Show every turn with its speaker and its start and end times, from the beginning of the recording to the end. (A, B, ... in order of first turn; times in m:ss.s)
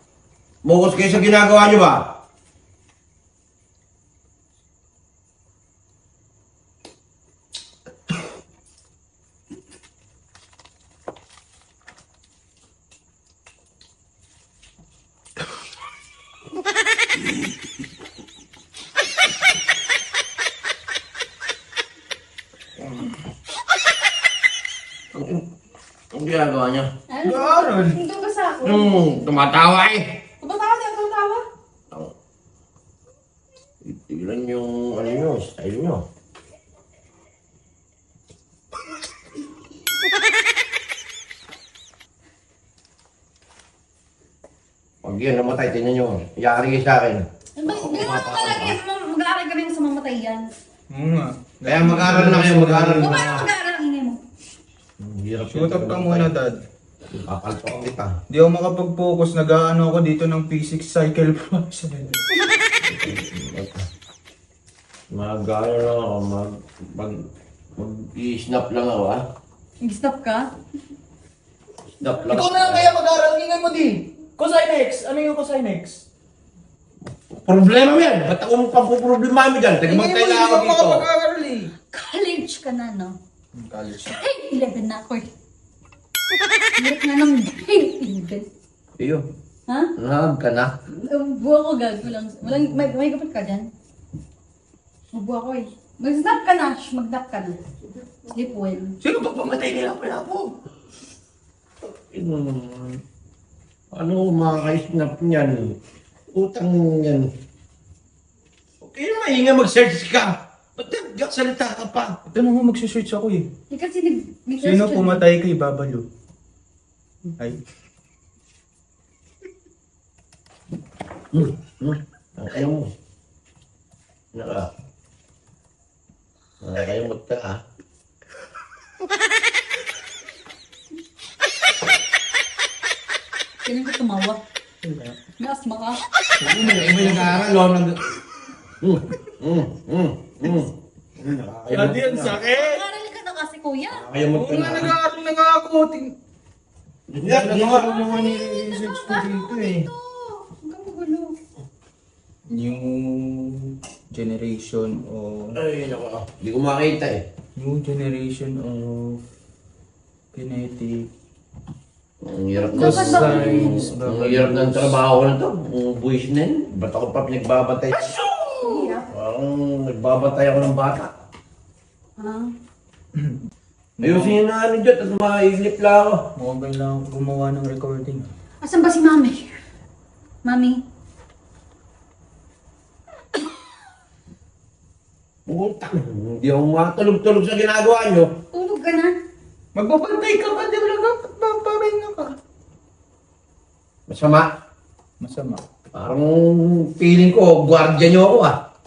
0:00.6-0:02.2 A
0:25.1-0:25.4 A
0:26.1-0:26.9 A
0:27.1-0:29.2 B
0:27.2-0:28.0 C
0:28.6-0:30.2 A
0:30.4-0:31.4 B
0:33.8-0:36.0 A
0:45.0-0:48.8 A
0:47.6-0:50.5 B
0:50.9-0:53.2 C
0:51.7-0:53.5 A
0:53.0-0:54.2 B
0:55.0-0:56.3 A
0:55.5-0:56.7 C
0:57.1-0:58.2 A
0:58.3-1:02.2 C
1:02.9-1:03.9 A
1:05.1-1:07.2 A
1:07.8-1:09.2 A
1:09.8-1:10.5 B
1:12.0-1:12.9 A
1:12.2-1:16.1 C
1:17.3-1:21.1 A
1:19.8-1:21.7 C
1:21.9-1:23.2 B
1:23.6-1:24.2 C
1:24.1-1:25.3 B
1:26.8-1:28.5 B
1:29.0-1:29.3 A
1:29.7-1:29.9 B
1:30.0-1:30.8 A
1:30.9-1:33.7 B
1:35.1-1:37.6 B
1:38.3-1:39.0 B
1:39.0-1:40.4 C
1:39.2-1:40.4 A
1:41.8-1:43.0 A
1:43.9-1:45.8 A
1:46.3-1:47.3 A
1:48.8-1:52.2 A
1:52.3-1:53.5 C
1:53.7-1:55.3 B
1:54.6-1:56.1 C
2:01.3-2:02.9 A
2:04.3-2:04.7 A
2:06.6-2:07.6 A
2:13.6-2:14.4 B
2:14.8-2:15.2 C
2:15.4-2:16.0 B
2:16.4-2:17.4 C
2:16.4-2:18.1 A
2:18.8-2:22.4 A
2:21.7-2:22.8 C
2:22.3-2:24.1 B
2:23.9-2:25.0 A
2:24.4-2:26.2 C
2:27.1-2:28.0 A
2:27.2-2:29.9 C
2:27.8-2:31.4 B
2:32.5-2:35.6 C
2:35.6-2:37.2 A
2:37.6-2:39.2 C
2:40.3-2:41.1 C
2:42.2-2:48.2 A
2:42.5-2:43.8 B
2:42.8-2:45.0 C
2:48.4-2:49.1 B
2:49.1-2:51.1 A
2:52.2-2:52.5 B
2:54.0-2:54.4 C
2:54.0-2:56.3 A
2:56.4-2:58.3 C
2:58.6-2:59.6 B
3:00.4-3:00.8 B
3:05.5-3:08.3 A
3:08.5-3:09.1 B
3:09.7-3:12.4 C
3:14.1-3:14.5 A
3:15.2-3:15.6 C
3:15.9-3:18.6 A